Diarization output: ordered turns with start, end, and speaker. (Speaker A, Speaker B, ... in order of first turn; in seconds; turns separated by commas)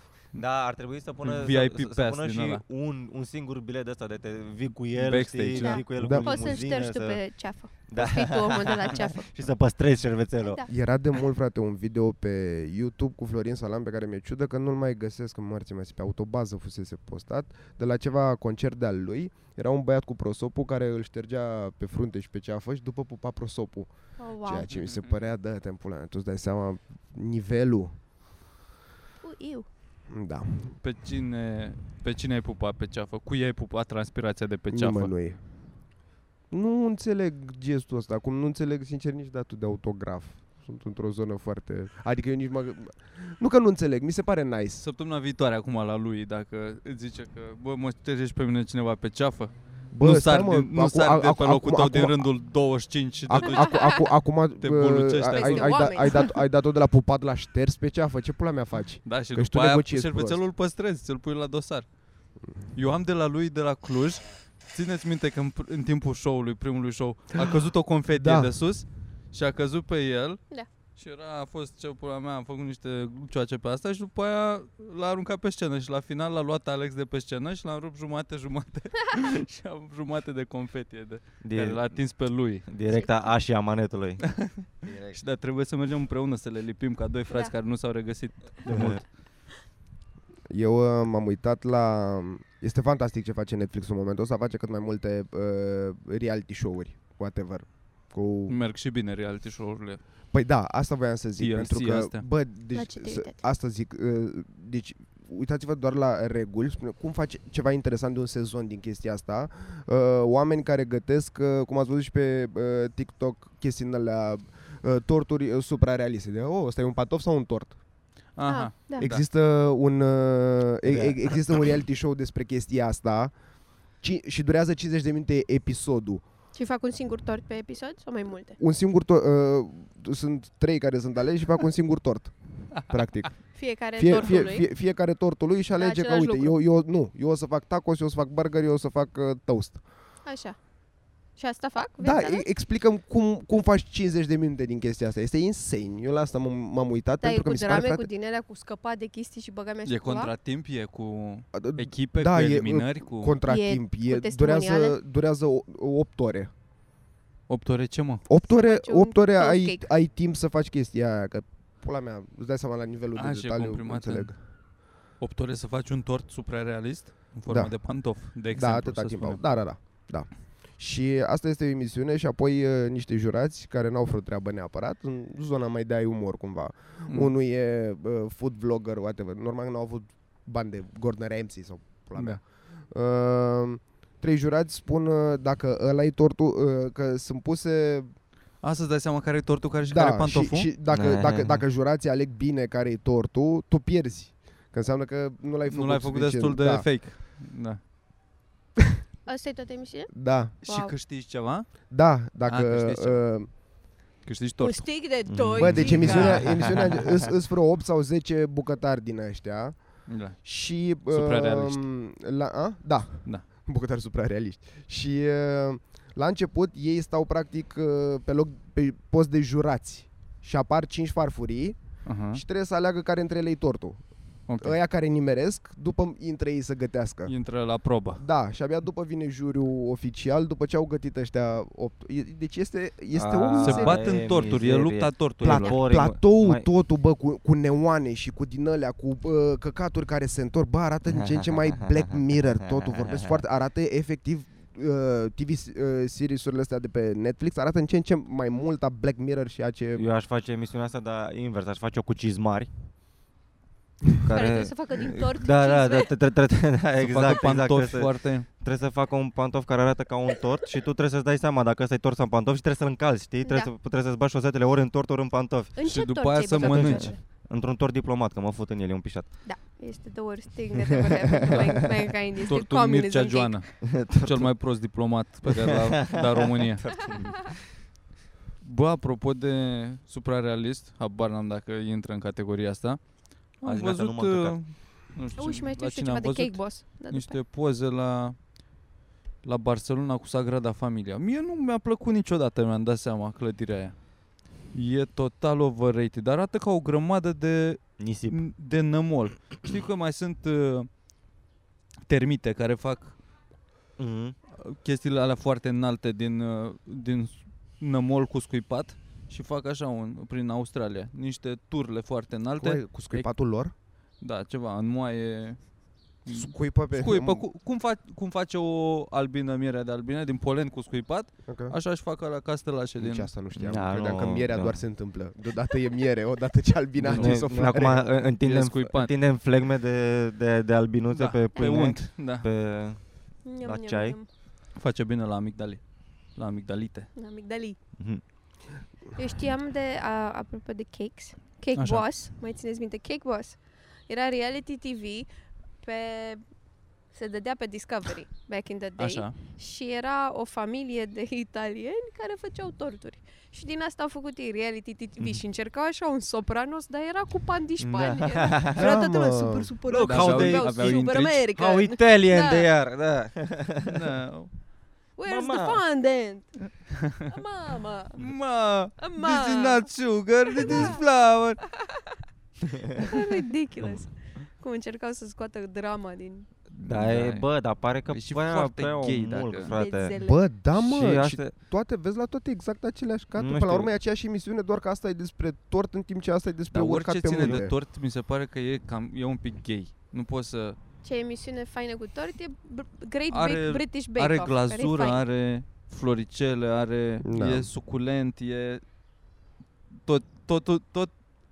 Speaker A: 0.3-10.7, Speaker B: 1.2-2.6, Speaker B: 5.0-5.8, Speaker C: 5.6-9.3, Speaker D: 6.0-6.3, Speaker C: 10.4-10.7, Speaker D: 10.7-28.0, Speaker C: 24.2-24.7, Speaker B: 24.7-25.1, Speaker C: 29.2-29.7, Speaker D: 30.1-30.8, Speaker B: 30.8-35.1, Speaker D: 34.7-35.4, Speaker D: 36.5-44.9, Speaker B: 44.8-54.1, Speaker D: 49.9-52.3, Speaker D: 53.3-60.4, Speaker C: 53.4-54.1, Speaker B: 54.6-56.1, Speaker C: 55.3-56.4, Speaker B: 59.0-61.9, Speaker B: 62.7-70.4, Speaker D: 68.1-68.5, Speaker B: 71.0-82.7, Speaker A: 81.4-85.2, Speaker C: 82.9-83.3, Speaker B: 84.3-89.0, Speaker A: 88.7-89.0, Speaker D: 90.5-98.5, Speaker B: 98.5-100.0, Speaker D: 100.3-117.8, Speaker B: 101.4-102.2, Speaker C: 102.7-103.4, Speaker B: 118.3-119.2, Speaker C: 118.5-119.0, Speaker D: 119.0-126.2, Speaker A: 120.9-121.4, Speaker C: 126.5-128.6, Speaker D: 128.6-139.8, Speaker C: 133.5-134.7, Speaker C: 135.8-136.5, Speaker C: 140.2-140.7, Speaker C: 141.3-142.4, Speaker D: 142.0-148.1, Speaker C: 147.2-150.3, Speaker B: 149.8-153.4, Speaker D: 151.5-156.5, Speaker C: 153.4-155.0, Speaker B: 157.5-158.3, Speaker D: 158.3-164.4, Speaker C: 158.5-159.8, Speaker B: 163.2-169.5, Speaker D: 167.5-188.1, Speaker B: 177.1-177.3, Speaker B: 182.2-182.4, Speaker B: 188.6-190.7, Speaker D: 189.9-196.9, Speaker A: 190.9-191.6, Speaker B: 195.7-197.8, Speaker C: 199.3-200.9, Speaker D: 200.1-200.5, Speaker B: 200.6-203.7, Speaker D: 201.9-203.5, Speaker B: 204.2-205.3, Speaker C: 204.6-206.5, Speaker A: 205.2-207.2, Speaker D: 205.6-224.0, Speaker B: 205.9-206.4, Speaker B: 210.1-210.4, Speaker B: 211.0-211.9, Speaker B: 222.0-222.4, Speaker B: 224.5-224.8, Speaker D: 224.6-227.3, Speaker B: 227.2-228.2, Speaker D: 228.2-234.3, Speaker A: 233.1-236.7, Speaker B: 233.6-235.8, Speaker D: 235.4-250.0, Speaker A: 243.0-243.4, Speaker A: 249.9-252.7, Speaker A: 254.2-265.8, Speaker C: 254.3-256.1, Speaker B: 257.0-258.5, Speaker C: 263.4-263.7, Speaker C: 265.8-267.2, Speaker B: 265.8-267.1, Speaker A: 266.5-269.8, Speaker C: 269.4-273.6, Speaker A: 271.5-271.8, Speaker B: 272.5-276.9, Speaker A: 273.8-274.5, Speaker A: 275.5-277.6, Speaker B: 278.6-283.0, Speaker B: 283.6-288.5, Speaker A: 283.7-284.6, Speaker C: 285.4-287.4, Speaker B: 289.4-294.1, Speaker B: 294.7-300.9, Speaker A: 298.0-298.4, Speaker B: 302.1-303.2, Speaker A: 304.0-304.4, Speaker B: 304.6-313.3, Speaker D: 312.6-313.7, Speaker B: 314.2-323.3, Speaker D: 316.3-317.4, Speaker D: 321.5-321.8, Speaker D: 323.0-328.0, Speaker A: 323.5-324.8, Speaker A: 327.0-334.2, Speaker B: 327.0-327.8, Speaker B: 328.4-329.1, Speaker B: 331.1-332.5, Speaker C: 333.4-334.3, Speaker B: 334.8-337.1, Speaker C: 337.1-337.8, Speaker C: 339.1-345.3, Speaker B: 341.8-342.0, Speaker C: 345.8-346.4, Speaker C: 347.1-362.7, Speaker B: 349.0-349.4, Speaker A: 357.8-358.9, Speaker D: 358.8-359.8, Speaker A: 359.9-363.9, Speaker B: 360.0-361.4, Speaker B: 363.8-364.5, Speaker C: 365.2-366.6, Speaker A: 365.2-365.8, Speaker C: 367.2-368.4, Speaker B: 368.2-371.6, Speaker C: 369.0-369.9, Speaker C: 370.5-371.0, Speaker C: 372.9-376.5, Speaker B: 376.7-377.5, Speaker A: 376.8-380.2, Speaker B: 378.1-379.8, Speaker C: 379.7-380.4, Speaker D: 380.2-387.7, Speaker A: 380.7-381.5, Speaker A: 383.4-383.9, Speaker B: 386.7-390.8, Speaker C: 391.0-395.2, Speaker B: 393.3-398.8, Speaker D: 397.2-397.7, Speaker B: 400.0-401.1